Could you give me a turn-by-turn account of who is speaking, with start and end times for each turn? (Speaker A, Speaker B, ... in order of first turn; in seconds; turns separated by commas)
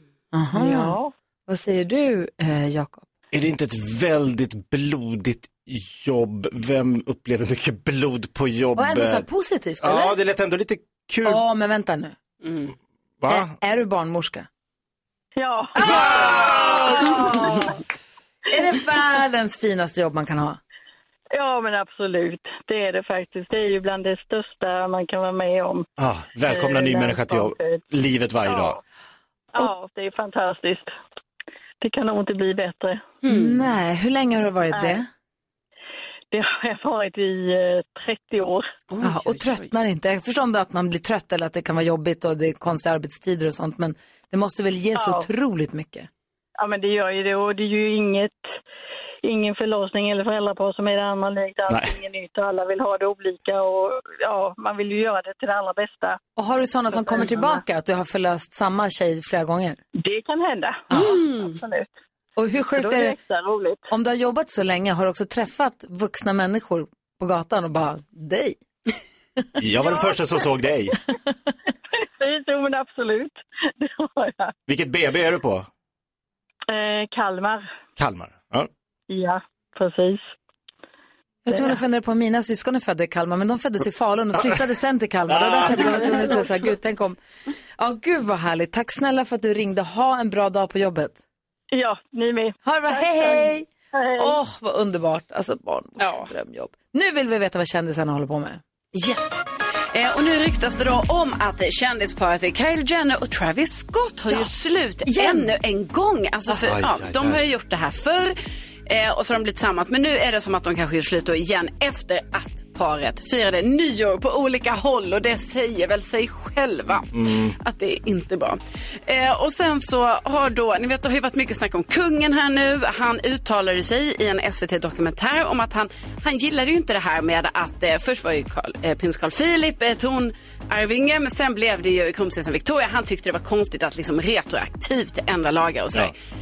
Speaker A: 0.3-3.0, Speaker B: 0.5-1.1, Speaker C: 3.3-9.2, Speaker A: 8.8-10.1, Speaker C: 9.8-11.4, Speaker A: 11.2-12.1, Speaker D: 12.4-12.7, Speaker C: 13.2-13.5, Speaker A: 13.3-14.5, Speaker B: 15.3-17.6, Speaker A: 15.8-17.8, Speaker A: 18.5-20.6, Speaker B: 21.3-25.9, Speaker C: 26.0-28.8, Speaker B: 26.4-27.8, Speaker B: 28.4-28.8, Speaker B: 29.5-30.9, Speaker B: 31.8-33.0, Speaker D: 33.2-33.6, Speaker A: 33.3-35.0, Speaker B: 34.7-35.0, Speaker B: 36.3-38.7, Speaker D: 38.9-39.7, Speaker A: 39.0-46.1, Speaker B: 44.9-45.3, Speaker B: 46.6-48.4, Speaker B: 49.2-56.2, Speaker C: 51.7-52.0, Speaker A: 56.4-59.8, Speaker B: 56.9-57.6, Speaker B: 60.0-61.9, Speaker A: 60.9-61.2, Speaker D: 60.9-61.6, Speaker A: 62.4-63.1, Speaker B: 62.7-63.8, Speaker A: 63.9-68.6, Speaker C: 69.6-71.0, Speaker B: 69.9-70.2, Speaker B: 71.9-74.5, Speaker C: 74.7-75.7, Speaker B: 76.7-77.6, Speaker C: 78.0-78.7, Speaker B: 79.1-80.2, Speaker A: 81.5-87.2, Speaker B: 81.5-81.8, Speaker C: 85.3-86.3, Speaker B: 85.9-86.5, Speaker A: 87.8-91.2, Speaker B: 91.7-94.4, Speaker A: 92.6-98.6, Speaker D: 96.0-96.3, Speaker D: 98.9-136.1, Speaker A: 104.3-105.5, Speaker C: 106.5-107.4, Speaker C: 117.1-117.5